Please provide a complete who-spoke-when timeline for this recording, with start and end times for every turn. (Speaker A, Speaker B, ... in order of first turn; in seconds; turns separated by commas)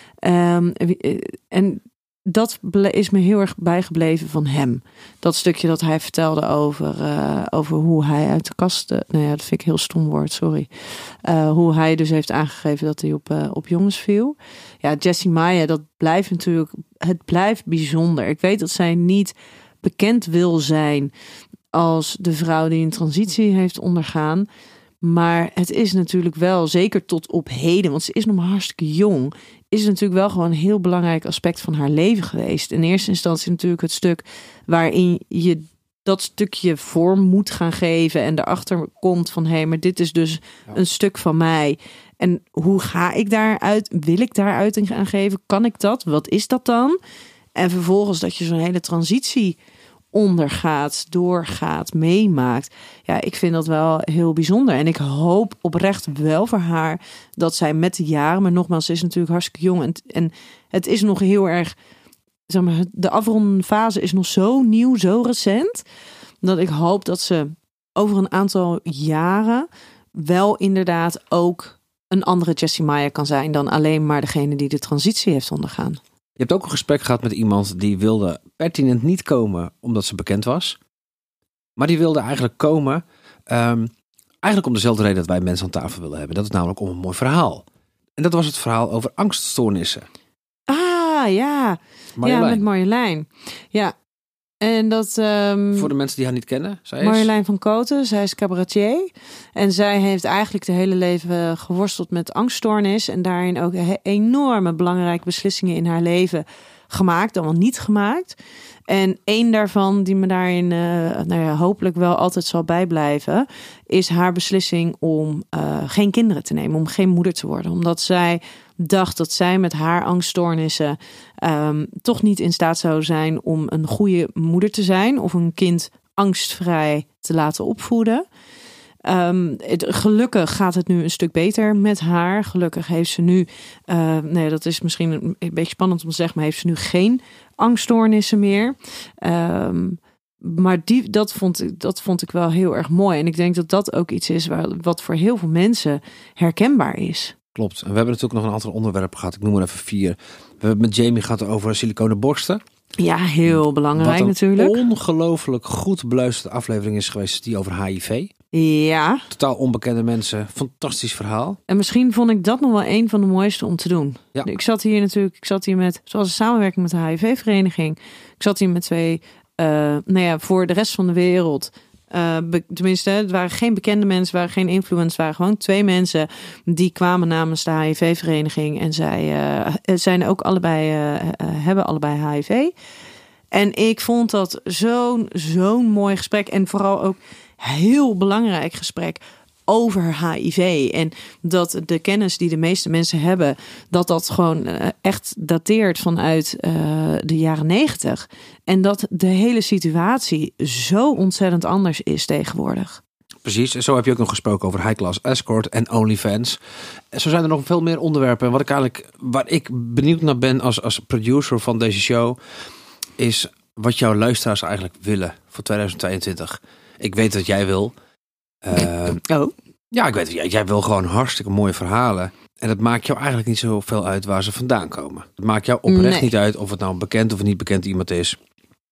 Speaker A: 0.2-10.7, Speaker A: 11.2-21.1, Speaker A: 21.7-24.5, Speaker A: 25.0-47.0, Speaker A: 47.5-49.6, Speaker A: 50.1-61.7, Speaker A: 62.5-65.8, Speaker A: 66.4-76.0, Speaker B: 76.4-80.8, Speaker B: 81.8-87.6, Speaker B: 88.2-90.1, Speaker A: 90.7-93.9, Speaker B: 92.2-92.6, Speaker A: 94.6-95.9, Speaker B: 95.8-97.3, Speaker A: 97.0-108.4, Speaker A: 108.9-128.2, Speaker A: 129.0-147.3, Speaker B: 147.5-152.6, Speaker A: 153.0-154.8, Speaker B: 153.4-158.3, Speaker A: 158.5-159.3, Speaker B: 159.3-161.6, Speaker A: 161.7-182.7, Speaker A: 183.5-203.0, Speaker B: 203.4-206.6, Speaker B: 207.1-212.4, Speaker B: 213.2-217.9, Speaker B: 218.6-219.2, Speaker A: 218.8-219.5, Speaker B: 219.9-228.4, Speaker A: 225.9-226.3